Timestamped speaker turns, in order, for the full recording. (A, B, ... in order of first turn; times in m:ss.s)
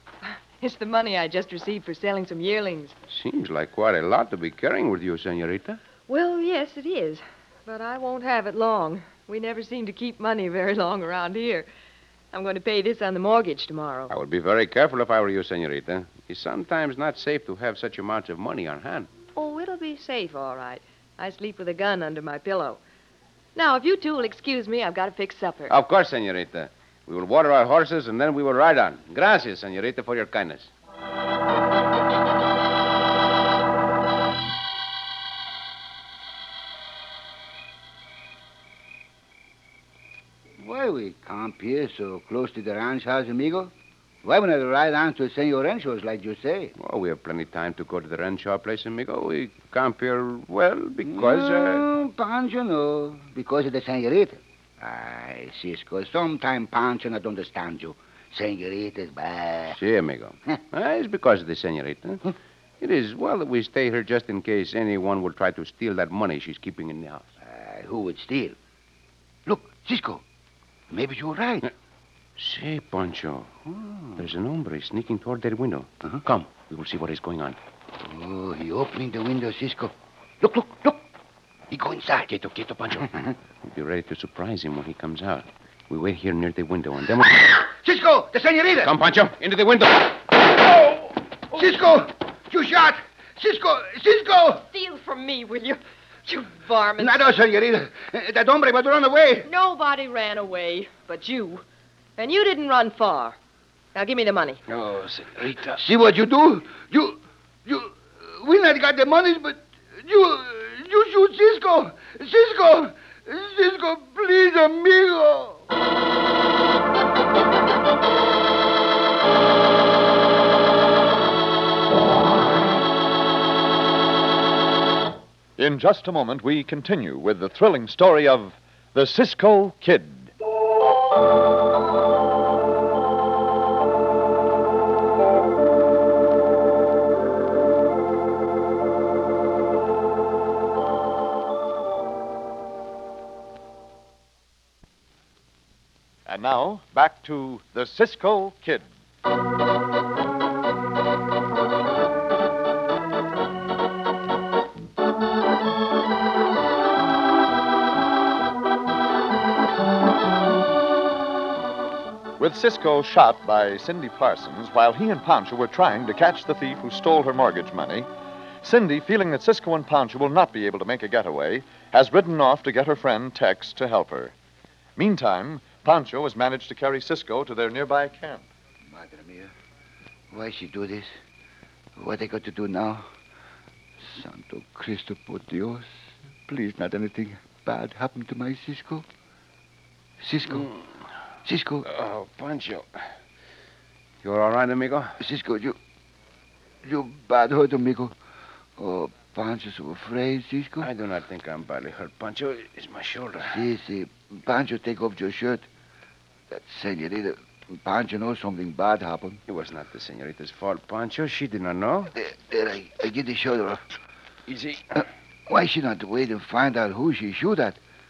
0:00.2-0:03.0 A
0:03.1-0:05.8 B
0:06.1-0:11.7 A
0:12.3-0:14.1 A
0:14.1-0:19.1 B
0:19.4-0:22.8 A
0:23.6-0:25.7 A
0:25.7-0:30.7 B
0:40.6-0:43.7 C
0:44.2-0:46.7 C
0:46.8-0:51.8 B
0:51.1-0:59.8 C
0:59.7-1:07.2 B
1:07.4-1:08.6 C
1:09.5-1:10.2 C
1:10.9-1:11.7 C
1:12.4-1:17.6 B
1:13.9-1:14.2 C
1:18.0-1:21.0 C
1:21.7-1:22.4 C
1:22.3-1:27.6 B
1:27.6-1:28.9 C
1:28.8-1:30.4 B
1:31.5-1:34.6 C
1:34.7-1:37.3 A
1:37.0-1:39.5 C
1:39.4-1:41.6 A
1:42.2-1:43.4 A
1:44.0-1:44.6 A
1:44.7-1:45.8 B
1:45.8-1:55.6 C
2:05.6-2:10.3 D
2:26.3-2:28.9 D
2:42.4-2:48.1 D
2:48.6-2:54.3 D
2:55.0-2:58.4 D
2:58.9-2:59.5 C
3:00.3-3:01.1 C
3:02.0-3:03.0 C
3:04.0-3:05.9 C
3:06.5-3:09.1 C
3:10.2-3:10.7 C
3:10.5-3:10.8 B
3:11.4-3:11.9 C
3:11.8-3:13.0 B
3:14.2-3:15.2 B
3:15.2-3:15.8 C
3:16.8-3:18.2 C
3:18.8-3:20.9 C
3:20.8-3:23.6 B
3:23.4-3:25.7 C
3:26.5-3:29.4 C
3:29.5-3:32.1 B
3:32.1-3:33.9 C
3:34.5-3:35.0 B
3:35.0-3:37.8 C